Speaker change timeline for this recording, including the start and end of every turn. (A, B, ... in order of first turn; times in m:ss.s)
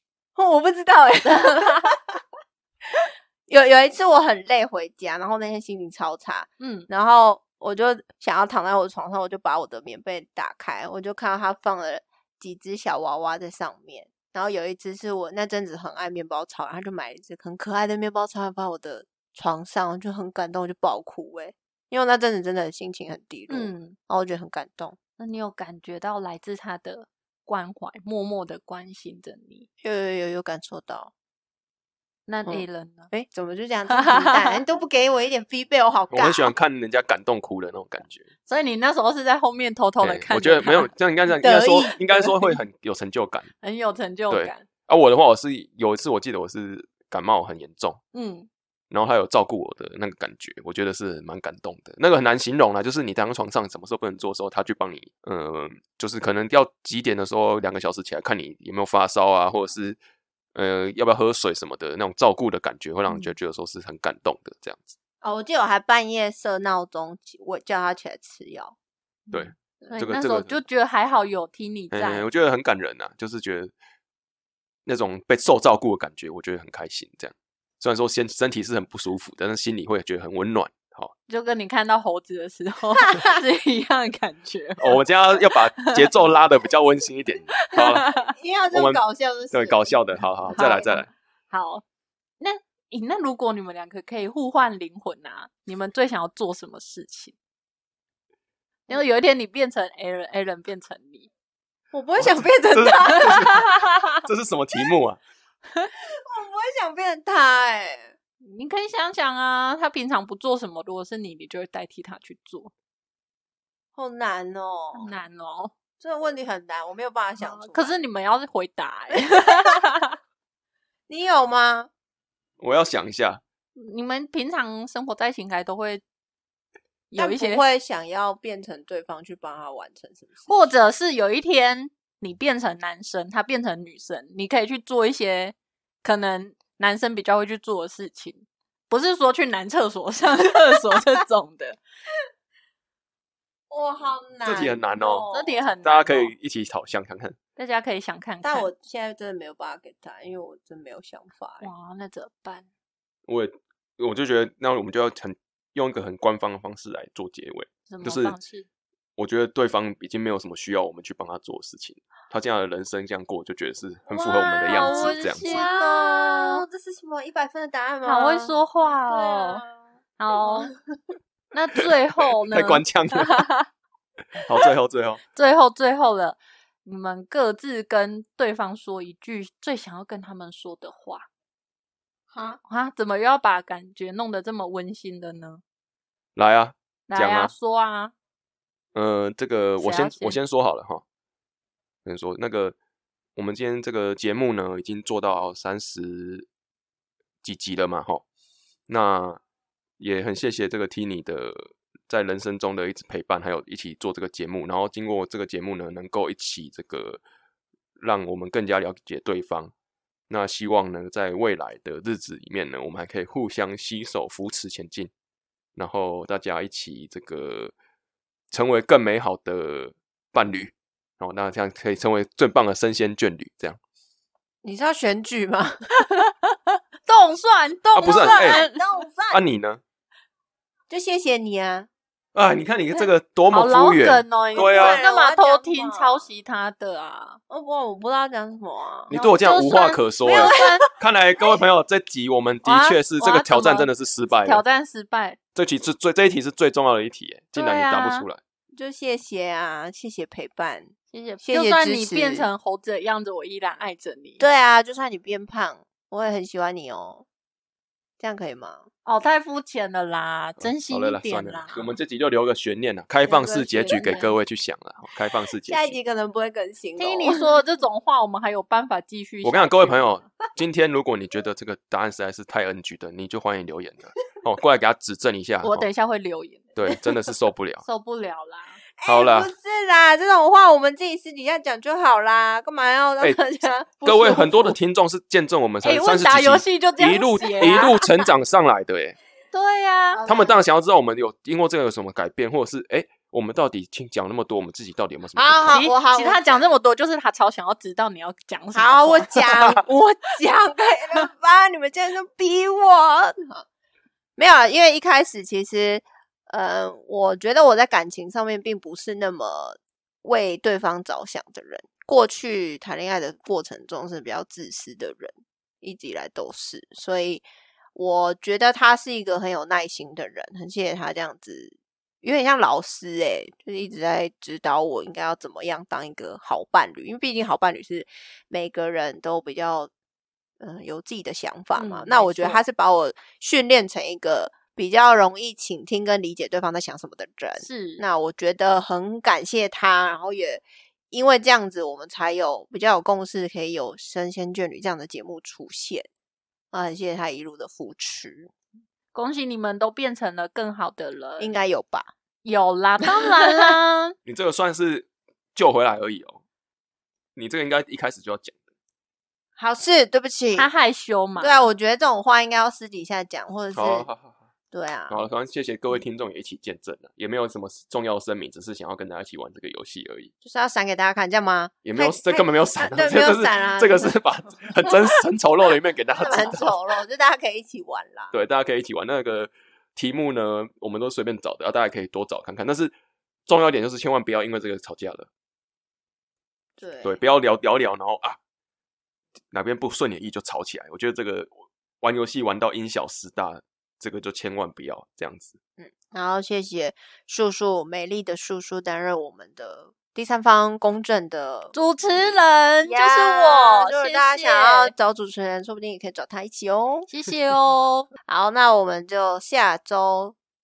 0:00.3-0:02.0 A
0:01.2-0:01.9 B
0:03.0-0:25.0 A
0:06.6-0:06.9 B
0:23.5-0:24.0 B
0:25.2-0:29.7 B
0:29.8-0:31.1 A
0:32.3-0:33.1 B
0:32.4-0:36.5 A
0:33.9-0:34.6 B
0:36.1-0:38.2 C
0:38.5-0:40.9 B
0:40.0-0:43.5 C
0:41.4-0:42.6 A
0:43.6-0:44.6 B
0:44.3-0:48.0 C
0:48.1-0:48.5 B
0:48.9-1:00.0 C
1:00.5-1:05.0 C
1:03.1-1:03.4 B
1:05.2-1:08.8 A
1:09.3-1:12.3 B
1:09.3-1:10.6 C
1:11.9-1:13.7 C
1:14.8-1:21.1 C
1:21.3-1:25.0 B
1:24.8-1:28.1 C
1:25.7-1:26.1 B
1:27.6-1:28.3 B
1:28.1-1:30.9 A
1:28.7-1:31.1 C
1:30.5-1:31.8 B
1:32.4-1:37.3 B
1:38.9-1:41.3 B
1:41.9-1:43.6 A
1:42.2-1:43.7 C
1:43.2-1:44.2 B
1:44.2-1:45.2 C
1:46.0-1:48.1 A
1:48.4-1:52.7 B
1:53.9-1:55.1 A
1:54.9-1:55.7 B
1:56.0-1:58.0 A
1:57.4-2:00.2 B
1:59.2-1:59.8 A
2:01.1-2:01.9 A
2:02.6-2:03.4 C
2:03.8-2:06.0 B
2:07.1-2:07.6 B
2:07.2-2:10.7 A
2:10.5-2:21.8 B
2:20.4-2:21.0 A
2:23.7-2:25.7 A
2:24.4-2:25.3 C
2:25.3-2:26.3 B
2:25.8-2:27.4 C
2:27.6-2:28.7 B
2:28.4-2:31.7 A
2:31.6-2:32.6 B
2:33.3-2:38.4 C
2:37.9-2:38.7 B
2:39.2-2:45.6 C
2:44.1-2:50.8 A
2:44.7-2:46.6 B
2:48.0-2:49.6 B
2:50.2-2:50.7 B
2:51.5-2:53.7 B
2:52.5-2:53.4 C
2:54.4-2:55.2 C
2:55.3-3:01.3 B
3:02.3-3:02.6 A
3:02.6-3:05.6 B
3:06.4-3:07.5 C
3:07.1-3:08.1 B
3:08.9-3:11.0 C
3:09.8-3:10.4 B
3:12.0-3:12.7 C
3:13.4-3:16.5 C
3:17.4-3:18.2 C
3:18.9-3:19.4 C
3:20.0-3:27.2 C
3:28.0-3:29.7 C
3:30.3-3:35.1 C
3:35.7-3:37.7 C
3:38.5-3:43.8 C
3:44.6-3:45.9 A
3:46.0-3:48.8 B
3:47.9-3:48.6 C
3:48.0-3:49.4 A
3:49.3-3:49.8 C
3:50.9-3:51.9 A
3:52.3-3:55.0 C
3:53.5-3:57.4 B
3:54.5-3:56.2 A
3:57.5-3:59.1 A
3:59.1-4:04.6 C
3:59.1-4:00.9 B
4:00.3-4:00.6 A
4:02.6-4:03.9 B
4:04.4-4:05.4 B
4:05.5-4:08.4 C
4:07.5-4:08.3 B
4:08.7-4:12.5 A
4:11.1-4:14.4 B
4:14.4-4:17.2 A
4:18.2-4:18.9 A
4:19.0-4:21.9 B
4:20.6-4:25.9 C
4:23.2-4:24.3 A
4:23.8-4:24.3 B
4:25.6-4:27.5 A
4:27.0-4:30.3 B
4:29.4-4:35.8 C
4:35.6-4:36.7 B
4:36.8-4:37.8 C
4:37.8-4:38.8 B
4:39.0-4:44.8 A
4:39.0-4:39.5 C
4:44.0-4:49.2 C
4:45.8-4:48.1 B
4:49.5-4:50.2 B
4:50.1-4:50.6 A
4:50.2-4:55.9 C
4:55.4-4:56.7 A
4:55.7-4:59.8 B
4:58.7-5:03.6 A
5:04.4-5:29.9 A
5:30.6-5:46.1 A
5:31.7-5:32.6 B
5:37.6-5:38.0 B
5:46.7-5:48.5 A
5:49.1-5:51.6 B
5:51.4-5:52.1 A
5:52.4-5:54.1 B
5:54.2-5:56.4 C
5:57.4-5:58.6 C
5:59.6-6:00.7 A
6:00.5-6:01.7 B
6:01.4-6:04.1 A
6:03.7-6:04.4 C
6:04.7-6:05.2 A
6:05.1-6:10.3 C
6:10.4-6:14.1 A
6:11.8-6:16.8 C
6:16.2-6:18.3 A
6:18.3-6:22.9 C
6:23.5-6:25.3 C
6:26.8-6:27.2 A
6:27.0-6:28.4 C
6:29.5-6:35.6 C
6:35.8-6:47.1 A
6:41.7-6:44.9 B
6:47.1-6:48.1 B
6:48.2-6:50.4 A